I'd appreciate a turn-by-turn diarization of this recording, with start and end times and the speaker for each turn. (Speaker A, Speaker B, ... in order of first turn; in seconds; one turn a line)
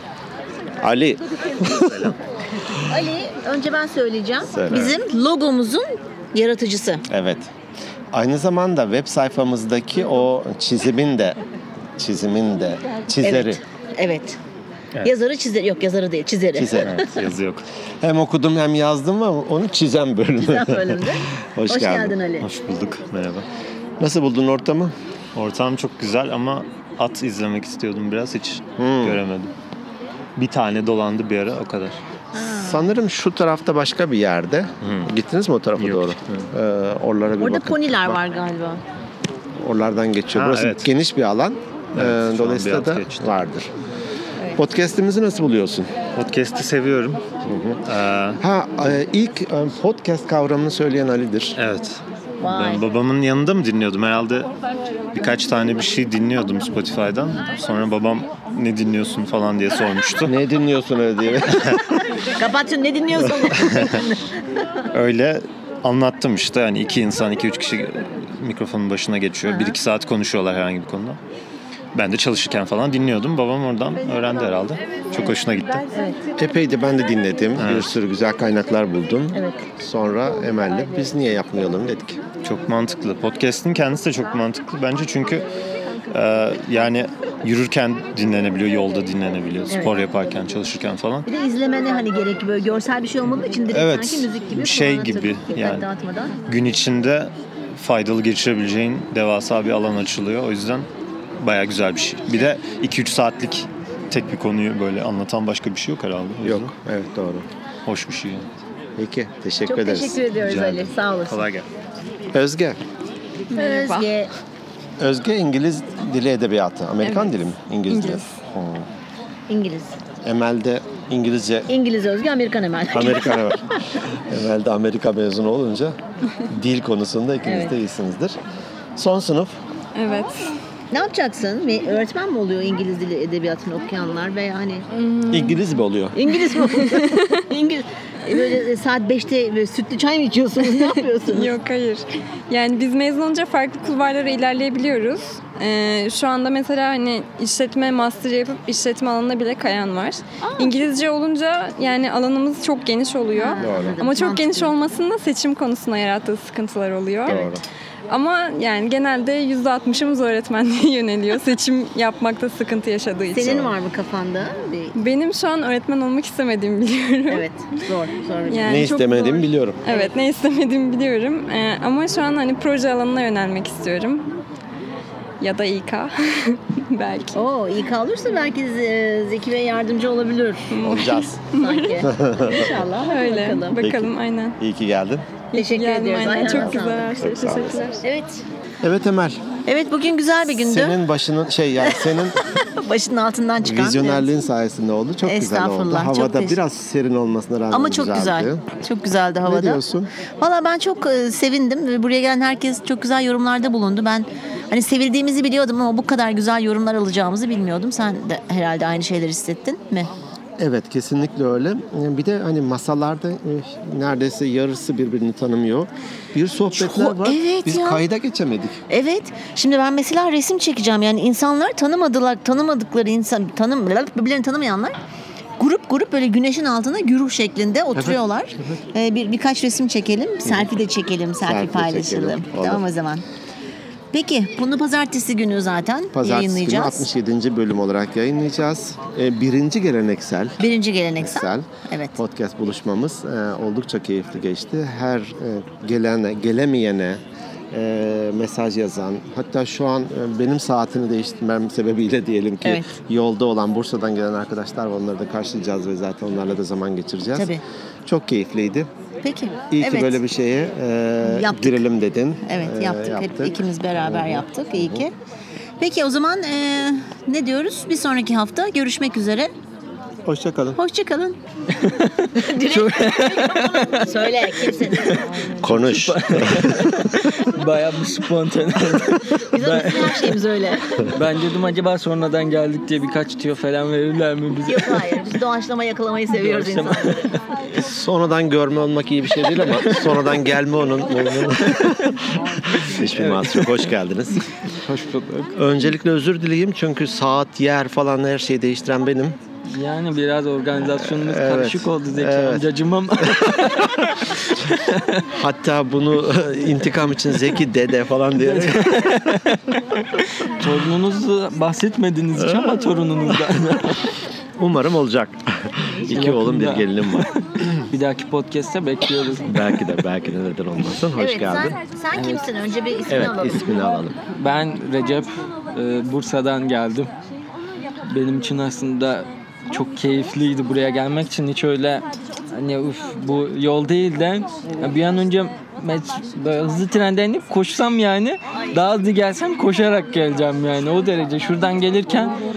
Speaker A: 0.8-2.1
Speaker B: 2.9-7.0
Speaker A: 4.5-5.0
Speaker A: 7.1-7.5
Speaker A: 8.1-11.4
Speaker A: 12.0-13.6
Speaker B: 13.2-14.4
Speaker B: 15.0-17.2
Speaker A: 16.6-17.0
Speaker C: 17.1-17.6
Speaker A: 18.0-21.0
Speaker B: 20.4-22.5
Speaker A: 21.6-22.2
Speaker C: 22.4-23.4
Speaker A: 24.0-24.9
Speaker C: 25.4-29.5
Speaker A: 28.8-29.2
Speaker C: 30.4-32.0
Speaker B: 32.3-32.9
Speaker A: 32.6-38.2
Speaker C: 35.8-36.5
Speaker B: 37.4-38.8
Speaker A: 39.6-43.7
Speaker C: 40.3-40.9
Speaker C: 42.0-43.4
Speaker A: 44.6-45.9
Speaker C: 46.1-47.2
Speaker A: 47.5-47.8
Speaker C: 47.9-48.4
Speaker A: 48.4-51.6
Speaker C: 51.6-54.5
Speaker B: 52.4-52.9
Speaker C: 55.2-60.3
Speaker A: 60.2-61.8
Speaker B: 62.4-64.2
Speaker C: 64.9-71.2
Speaker B: 69.4-69.8
Speaker C: 72.0-75.9
Speaker A: 76.3-82.2
Speaker C: 77.6-77.9
Speaker C: 82.4-85.4
Speaker C: 86.1-91.3
Speaker B: 89.7-90.0
Speaker B: 91.3-96.4
Speaker C: 93.7-95.9
Speaker C: 96.5-100.9
Speaker C: 101.4-106.7
Speaker A: 106.4-107.5
Speaker C: 107.9-108.4
Speaker A: 109.0-110.2
Speaker B: 109.7-111.5
Speaker C: 111.3-111.6
Speaker A: 112.3-112.8
Speaker B: 113.5-114.3
Speaker D: 113.5-114.1
Speaker A: 115.0-118.9
Speaker D: 117.0-117.3
Speaker D: 117.9-118.2
Speaker B: 119.5-120.0
Speaker A: 120.2-121.7
Speaker B: 121.7-123.4
Speaker A: 122.9-123.6
Speaker A: 124.3-126.0
Speaker A: 126.5-128.4
Speaker B: 127.4-127.8
Speaker A: 129.0-129.5
Speaker D: 130.0-130.5
Speaker B: 130.9-134.9
Speaker A: 135.3-136.2
Speaker B: 136.1-141.6
Speaker D: 136.8-137.1
Speaker D: 141.3-157.5
Speaker B: 150.4-150.8
Speaker B: 153.3-154.8
Speaker A: 153.6-154.0
Speaker A: 157.3-157.6
Speaker D: 158.1-163.5
Speaker B: 163.3-164.9
Speaker D: 165.0-167.4
Speaker B: 167.3-168.8
Speaker D: 168.5-174.3
Speaker A: 168.7-169.8
Speaker B: 169.9-170.1
Speaker D: 175.4-177.4
Speaker B: 177.3-180.7
Speaker D: 180.7-181.9
Speaker A: 180.8-181.4
Speaker B: 181.5-183.9
Speaker A: 182.0-182.7
Speaker D: 183.1-184.6
Speaker A: 183.8-185.3
Speaker D: 185.5-188.0
Speaker B: 185.5-187.3
Speaker A: 187.2-187.8
Speaker B: 188.0-188.4
Speaker A: 188.8-189.4
Speaker B: 189.7-191.0
Speaker A: 190.5-192.4
Speaker B: 192.8-194.3
Speaker A: 193.6-198.7
Speaker B: 195.2-196.6
Speaker B: 197.7-199.8
Speaker A: 199.4-200.1
Speaker B: 200.4-210.1
Speaker A: 210.6-218.8
Speaker B: 216.7-218.0
Speaker B: 218.9-225.0
Speaker B: 225.6-233.2
Speaker A: 231.4-232.8
Speaker B: 234.1-237.1
Speaker A: 236.2-240.6
Speaker B: 240.6-242.2
Speaker A: 241.2-247.2
Speaker A: 247.7-257.6
Speaker B: 252.6-252.9
Speaker B: 257.3-257.6
Speaker A: 258.1-258.9
Speaker B: 259.2-260.2
Speaker A: 259.7-265.0
Speaker B: 261.3-261.8
Speaker B: 262.5-265.1
Speaker B: 265.8-269.5
Speaker A: 270.3-270.8
Speaker B: 270.8-271.4
Speaker E: 271.8-272.1
Speaker B: 272.4-275.1
Speaker E: 272.6-274.0
Speaker A: 275.6-276.7
Speaker E: 275.7-280.4
Speaker B: 279.5-280.9
Speaker E: 281.1-285.1
Speaker B: 284.7-287.3
Speaker E: 286.3-287.4
Speaker A: 287.8-292.1
Speaker A: 292.7-294.4
Speaker E: 293.1-293.9
Speaker E: 294.9-295.5
Speaker A: 295.6-299.4
Speaker E: 299.7-303.9
Speaker A: 301.0-302.7
Speaker E: 304.7-305.2
Speaker A: 305.4-308.9
Speaker E: 308.4-309.6
Speaker E: 310.6-314.0
Speaker A: 312.4-312.8
Speaker A: 314.6-315.5
Speaker A: 316.1-317.3
Speaker E: 316.1-317.3
Speaker E: 317.9-319.8
Speaker A: 319.4-321.8
Speaker B: 321.2-323.7
Speaker E: 322.1-322.5
Speaker A: 323.1-324.2
Speaker E: 324.4-327.1
Speaker E: 328.1-342.4